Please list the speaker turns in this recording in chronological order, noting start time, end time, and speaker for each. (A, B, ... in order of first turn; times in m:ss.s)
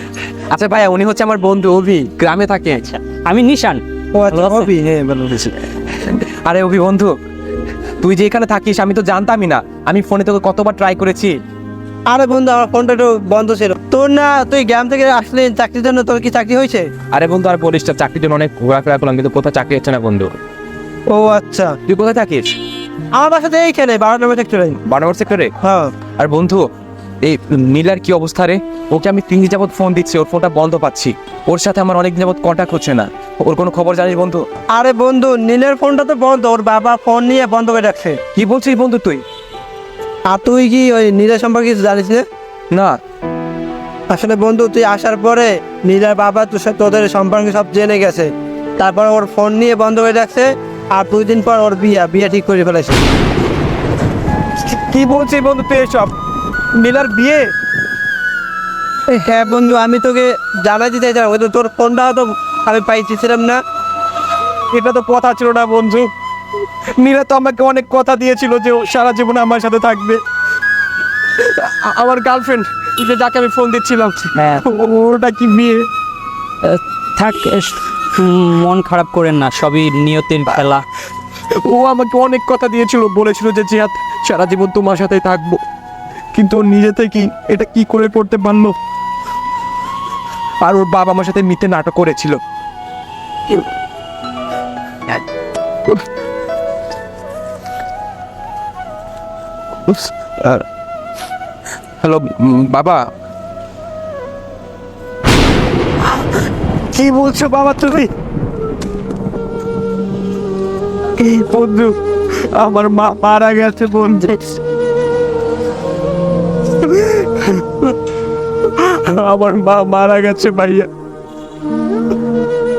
0:00.5-0:03.0 A
0:03.0-0:04.7 B
0:04.1-0:05.5 C
0:06.0-0:07.1 A
0:08.0-0:11.4 A
0:12.0-0:16.9 C
0:17.1-0:20.3 A
0:21.1-0:21.8 C
0:21.8-0:22.5 A
0:23.1-0:24.8 C
0:24.8-0:25.5 A
0:25.6-0:25.9 C
0:26.2-0:26.6 A
0:27.2-0:34.4 A
0:34.7-0:38.2 C
0:38.3-0:39.2 A
0:40.3-0:42.2 C
0:42.7-0:43.0 A
0:44.1-0:53.0 C
0:54.6-0:56.1 A
0:56.8-0:57.5 A
0:59.2-1:03.6 C
1:04.7-1:06.1 A
1:07.0-1:10.2 A
1:11.4-1:15.9 A
1:16.6-1:20.8 B
1:21.5-1:25.6 A
1:26.3-1:28.7 A
1:30.6-1:32.4 A
1:39.9-1:40.6 A
1:42.0-1:43.0 A
1:46.9-1:48.1 A
1:51.2-1:54.6 A
1:56.8-1:57.8 A
1:58.8-2:00.9 A